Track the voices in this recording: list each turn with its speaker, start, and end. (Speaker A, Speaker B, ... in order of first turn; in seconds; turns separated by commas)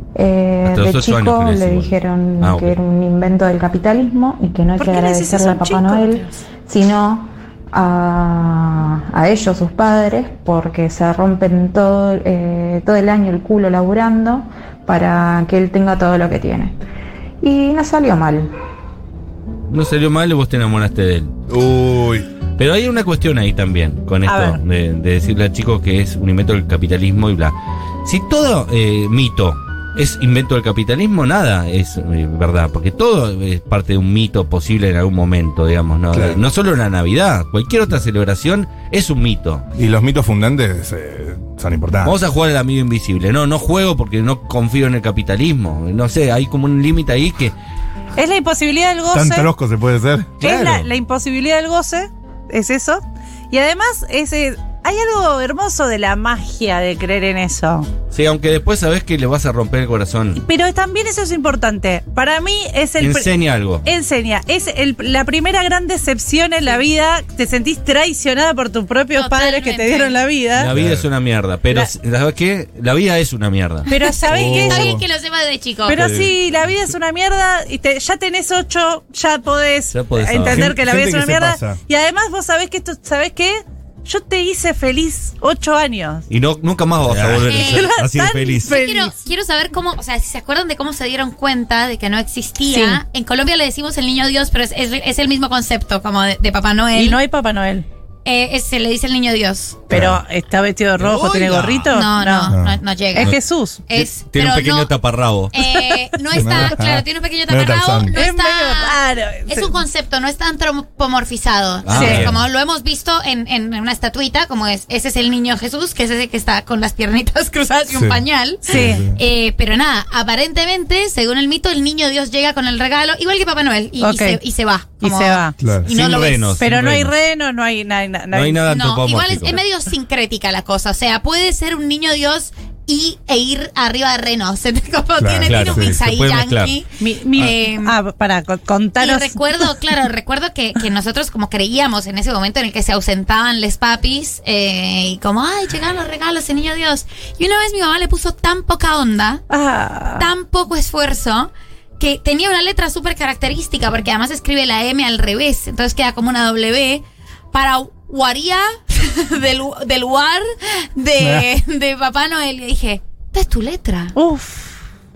Speaker A: 0.1-16.8, Speaker B: 0.6-2.8, Speaker C: 4.8-6.4, Speaker A: 17.4-18.5, Speaker B: 19.7-21.3, Speaker D: 21.5-22.3, Speaker B: 22.6-39.6, Speaker C: 24.3-24.6, Speaker D: 36.1-36.4, Speaker D: 39.8-42.2, Speaker B: 42.0-47.5, Speaker C: 48.2-49.5, Speaker D: 49.1-50.4, Speaker B: 50.4-50.9, Speaker C: 50.4-57.9, Speaker B: 58.1-60.4, Speaker C: 60.4-70.7, Speaker B: 63.0-63.9, Speaker E: 69.2-70.2, Speaker B: 70.5-73.9, Speaker D: 70.7-71.1, Speaker C: 73.9-75.0, Speaker E: 73.9-76.0, Speaker D: 74.3-75.0, Speaker C: 75.9-86.3, Speaker B: 75.9-76.3, Speaker B: 79.9-80.7, Speaker D: 80.5-81.8, Speaker B: 86.3-88.8, Speaker C: 87.4-89.2, Speaker E: 87.5-87.9, Speaker E: 88.6-97.2, Speaker C: 92.7-93.0, Speaker C: 97.0-97.9, Speaker E: 98.2-99.9, Speaker C: 99.9-102.5, Speaker D: 99.9-100.2, Speaker B: 101.0-101.9, Speaker D: 101.4-101.9, Speaker E: 101.9-103.3, Speaker D: 102.5-102.8, Speaker C: 103.1-103.8, Speaker E: 103.9-104.9, Speaker B: 103.9-105.5, Speaker E: 105.5-126.6, Speaker D: 106.4-108.2, Speaker C: 108.1-109.7, Speaker B: 111.8-112.4, Speaker C: 112.0-112.3, Speaker D: 117.9-119.2, Speaker C: 118.7-119.0, Speaker C: 124.0-124.4, Speaker C: 125.0-125.6, Speaker D: 125.6-125.8, Speaker B: 125.9-127.1, Speaker C: 126.6-128.6, Speaker B: 128.3-129.6, Speaker E: 128.7-137.9, Speaker D: 135.2-136.0, Speaker B: 135.5-136.8, Speaker C: 137.0-139.4, Speaker E: 139.0-149.4, Speaker C: 149.5-150.3, Speaker E: 150.2-164.2, Speaker D: 161.2-161.4, Speaker C: 164.2-164.8